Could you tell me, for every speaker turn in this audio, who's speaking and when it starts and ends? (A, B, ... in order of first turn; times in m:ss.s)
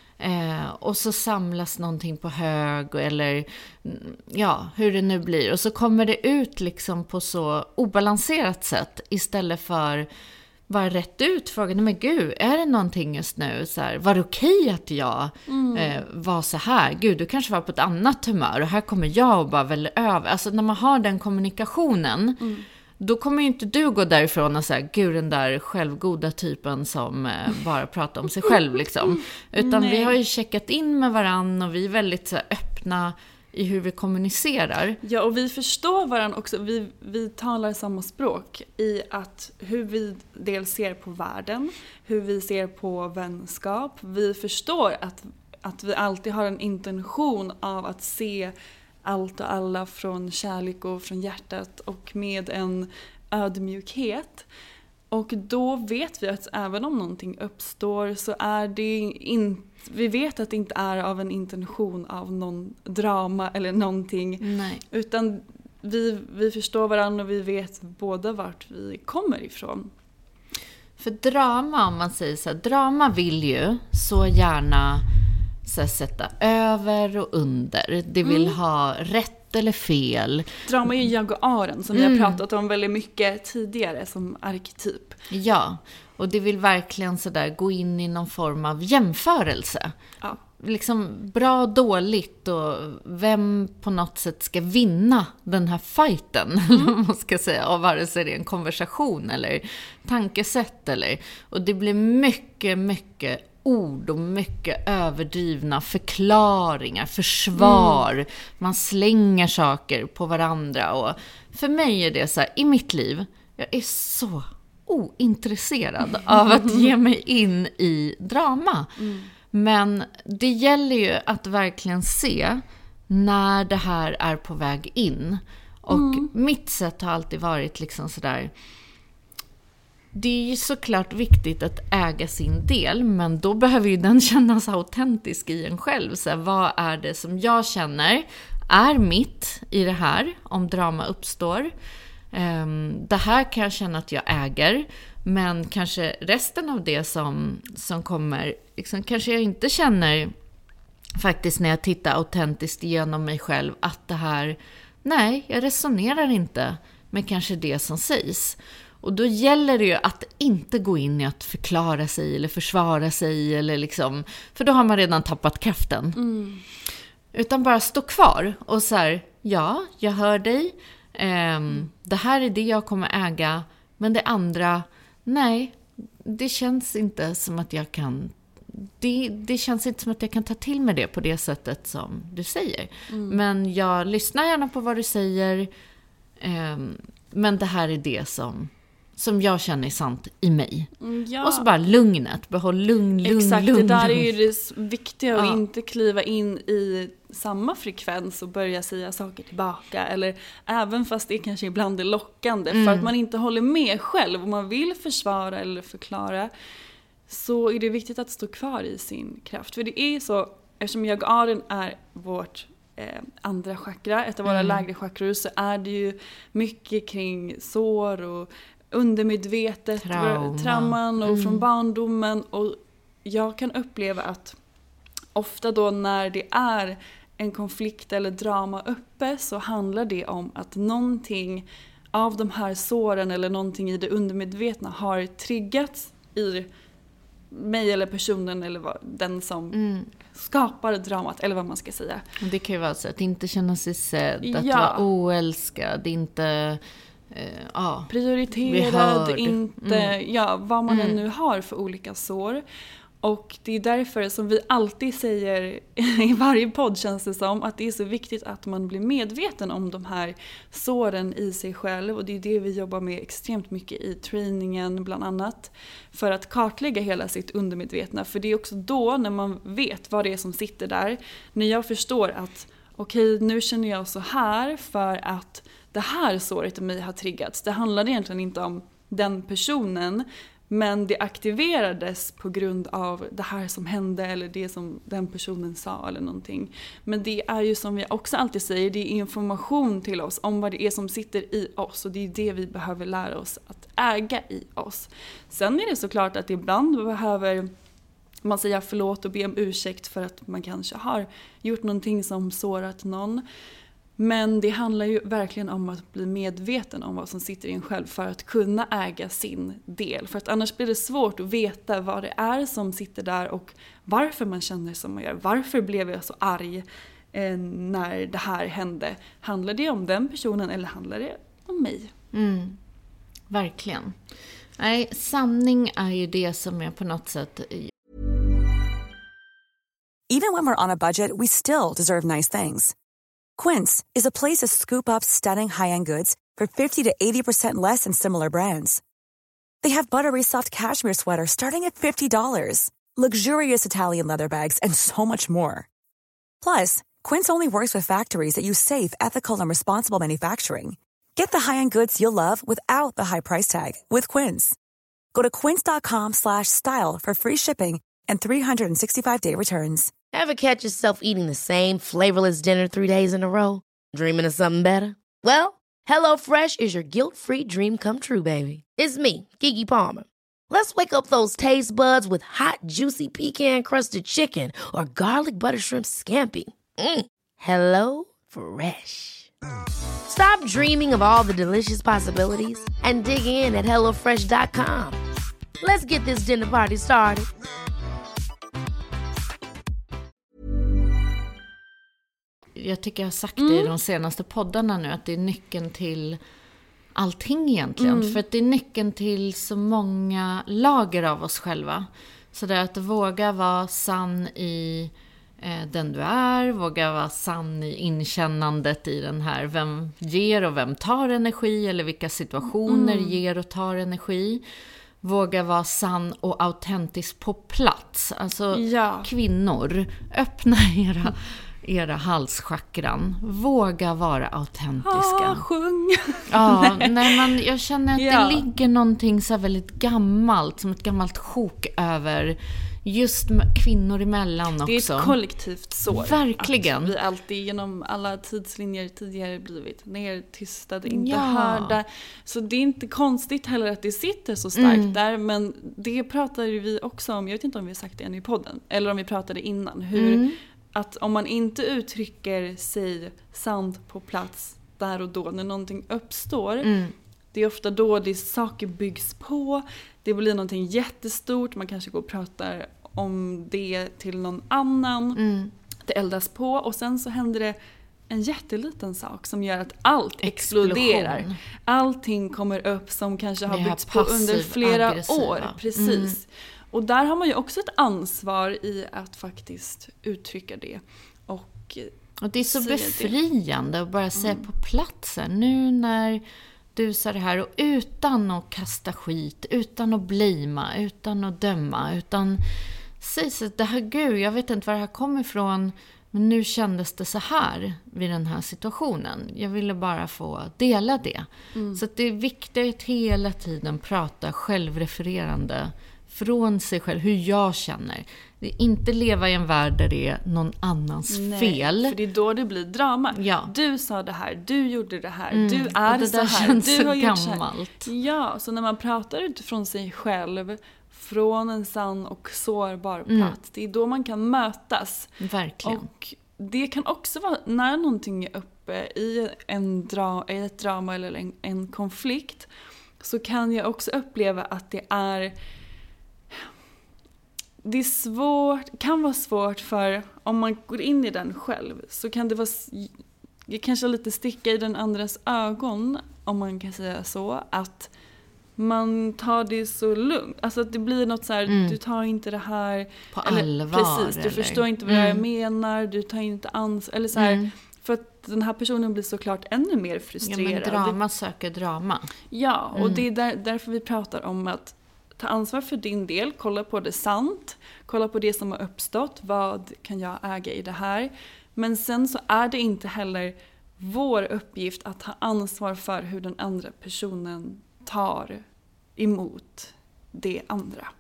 0:00.2-0:10.1 A
0:10.7-0:22.4 A
0:15.5-0:16.0 B
0:22.4-0:22.7 B
0:23.0-0:35.0 A
0:29.6-0:30.2 B
0:35.0-0:48.5 B
0:49.0-0:54.5 B
0:55.1-1:09.9 B
1:04.4-1:04.8 A
1:11.0-1:15.0 A
1:15.6-1:20.5 A
1:18.2-1:18.6 B
1:20.7-1:25.2 B
1:21.9-1:22.4 A
1:25.3-1:58.9 A
1:36.7-1:36.9 B
1:47.6-1:48.0 B
1:56.3-1:56.9 B
1:59.0-1:59.3 B
1:59.5-2:08.5 A
2:05.9-2:06.3 B
2:10.1-2:21.7 A
2:22.3-2:30.3 A
2:31.2-2:46.2 A
2:46.2-2:46.6 B
2:47.3-3:05.7 A
3:03.1-3:03.4 B
3:06.4-3:14.4 A
3:11.0-3:11.7 B
3:13.2-3:26.5 B
3:15.4-3:15.6 A
3:22.7-3:23.1 A
3:27.3-3:44.6 B
3:34.5-3:34.8 A
3:40.0-3:41.7 A
3:45.4-3:56.7 B
3:57.5-3:59.8 B
3:59.7-4:00.1 A
4:00.3-4:02.2 B
4:02.4-4:08.1 A
4:04.4-4:05.1 B
4:08.1-4:12.6 B
4:08.6-4:10.1 A
4:10.9-4:11.2 A
4:13.2-4:57.7 B
4:58.4-5:03.4 B
5:04.2-5:22.1 B
5:22.3-5:22.8 A
5:23.5-5:24.2 A
5:24.8-5:27.9 A
5:30.3-5:32.9 C
5:33.6-5:39.0 C
5:39.8-5:45.9 C
5:46.6-5:54.8 C
5:55.3-6:00.1 C
6:00.3-6:19.5 D
6:20.3-6:25.2 D
6:25.8-6:27.5 D
6:32.8-6:36.4 A
6:33.6-6:33.9 B
6:37.2-6:54.6 A
6:38.0-6:38.4 B
6:52.9-6:53.4 B
6:55.2-7:05.6 A
6:58.7-6:59.3 B
7:05.0-7:07.4 B
7:06.5-7:15.4 A
7:08.2-7:08.7 B
7:14.8-7:36.9 B
7:16.1-7:17.2 A
7:21.1-7:22.0 A
7:24.8-7:25.2 A
7:30.2-7:30.6 A
7:36.8-7:37.2 A
7:37.5-7:45.4 B
7:45.4-7:45.7 A
7:46.0-7:47.8 B
7:48.3-8:03.3 B
7:50.4-7:51.6 A
7:53.7-7:56.4 A
8:02.4-8:06.4 A
8:04.4-8:04.6 B
8:07.0-8:12.6 A
8:13.2-8:32.2 A
8:21.8-8:22.0 B
8:31.3-8:45.3 B
8:33.4-8:33.7 A
8:35.5-8:38.1 A
8:43.3-8:43.6 A
8:45.4-8:46.1 A
8:45.8-8:52.7 B
8:53.2-8:55.5 B
8:57.8-9:03.2 B
9:03.7-9:08.1 B
9:08.8-9:21.2 B
9:11.7-9:12.0 A
9:13.3-9:15.4 A
9:17.4-9:17.7 A
9:20.4-9:22.3 A
9:22.5-9:38.6 B
9:23.0-9:23.2 A
9:39.2-9:41.1 B